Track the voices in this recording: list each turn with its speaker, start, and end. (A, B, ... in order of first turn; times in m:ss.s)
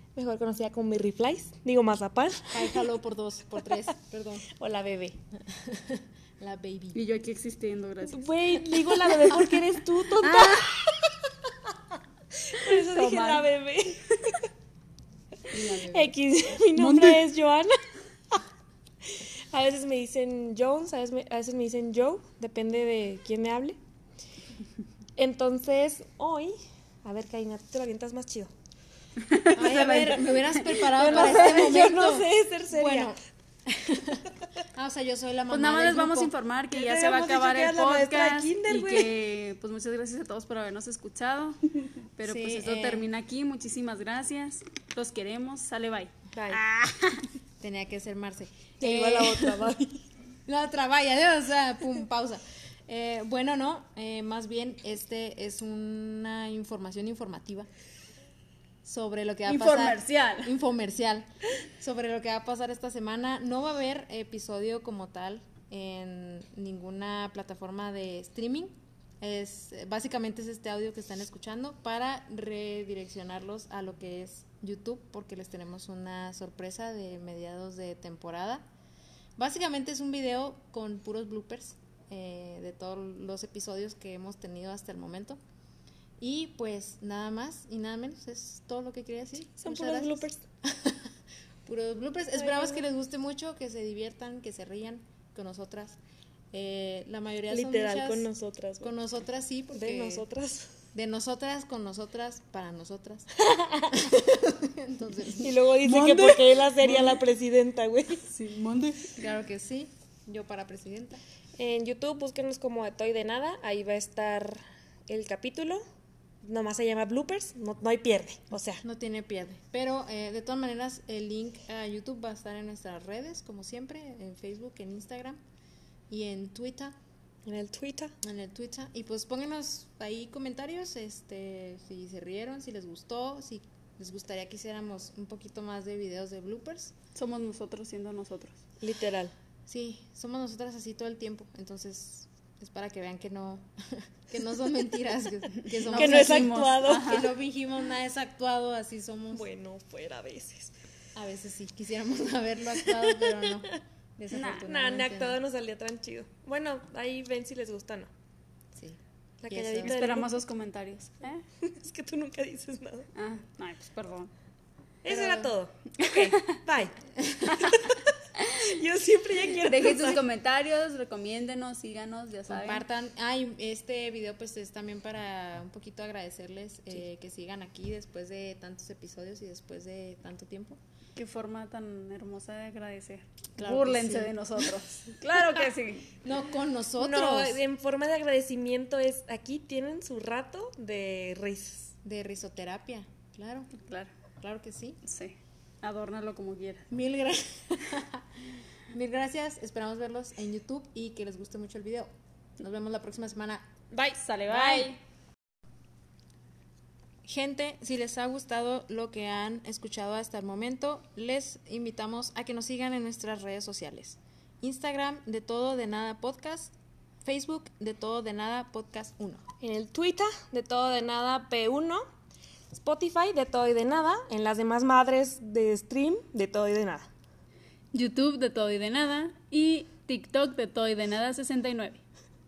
0:00.2-0:02.8 A
0:02.5-0:04.5 B
0:04.6-0:05.2 A
0:05.5-0:07.0 B
0:07.0-0:08.2 C
0:08.1-0:10.8 A
0:10.2-0:10.9 C
0:12.5-0:14.4 A
0:12.6-0:13.5 C
0:15.5-0:16.1 B
0:15.8-0:17.7 A
0:16.8-0:17.2 C
0:19.5-0:23.8 A
0:25.2-0:26.5 A
0:27.0-0:28.5 A
0:29.3-0:30.8 C
0:29.5-0:33.2 B
0:30.9-0:33.1 A
0:33.7-0:36.3 B
0:35.5-0:47.3 C
0:36.7-0:39.1 A
0:42.2-0:43.1 B
0:46.3-0:46.6 A
0:47.6-0:49.7 B
0:48.8-0:50.0 A
0:50.4-0:57.7 B
0:58.8-1:01.3 B
0:59.5-1:00.5 C
1:01.8-1:18.6 B
1:19.4-1:25.4 B
1:26.2-1:31.0 B
1:29.6-1:30.4 A
1:31.6-1:36.0 B
1:36.5-1:38.3 B
1:37.5-1:38.9 A
1:38.8-1:40.3 B
1:39.7-1:40.7 A
1:40.9-1:43.3 B
1:43.5-1:44.1 A
1:43.9-1:45.5 B
1:45.4-1:48.2 A
1:45.8-1:47.2 C
1:48.3-1:49.1 C
1:49.1-1:51.2 B
1:51.6-1:55.8 A
1:56.4-1:58.8 A
1:58.8-2:05.4 B
2:06.1-2:07.0 B
2:07.5-2:08.1 A
2:08.2-2:16.9 B
2:17.2-2:18.6 C
2:18.8-2:19.3 A
2:19.7-2:23.7 B
2:24.3-2:29.5 B
2:25.8-2:27.3 C
2:25.9-2:27.3 A
2:29.3-2:30.7 A
2:31.2-2:35.4 B
2:32.8-2:33.5 A
2:34.3-2:34.7 C
2:34.4-2:38.1 A
2:38.7-2:39.9 B
2:39.4-2:40.3 A
2:39.8-2:41.4 C
2:41.6-2:43.1 A
2:43.2-2:44.3 C
2:45.0-2:47.0 A
2:45.1-2:45.5 B
2:46.0-2:46.6 C
2:47.5-2:50.2 A
2:49.6-2:52.9 C
2:52.5-3:00.8 B
3:01.2-3:06.1 C
3:03.6-3:04.4 B
3:06.1-3:07.6 B
3:07.0-3:11.9 A
3:12.0-3:13.7 B
3:13.7-3:14.1 C
3:14.4-3:15.0 B
3:15.0-3:16.9 C
3:16.9-3:18.2 B
3:18.9-3:23.6 B
3:23.9-3:24.9 A
3:24.2-3:25.0 C
3:27.2-3:36.7 B
3:37.2-3:39.4 B
3:39.6-3:42.0 A
3:42.7-3:47.1 A
3:47.9-3:52.0 C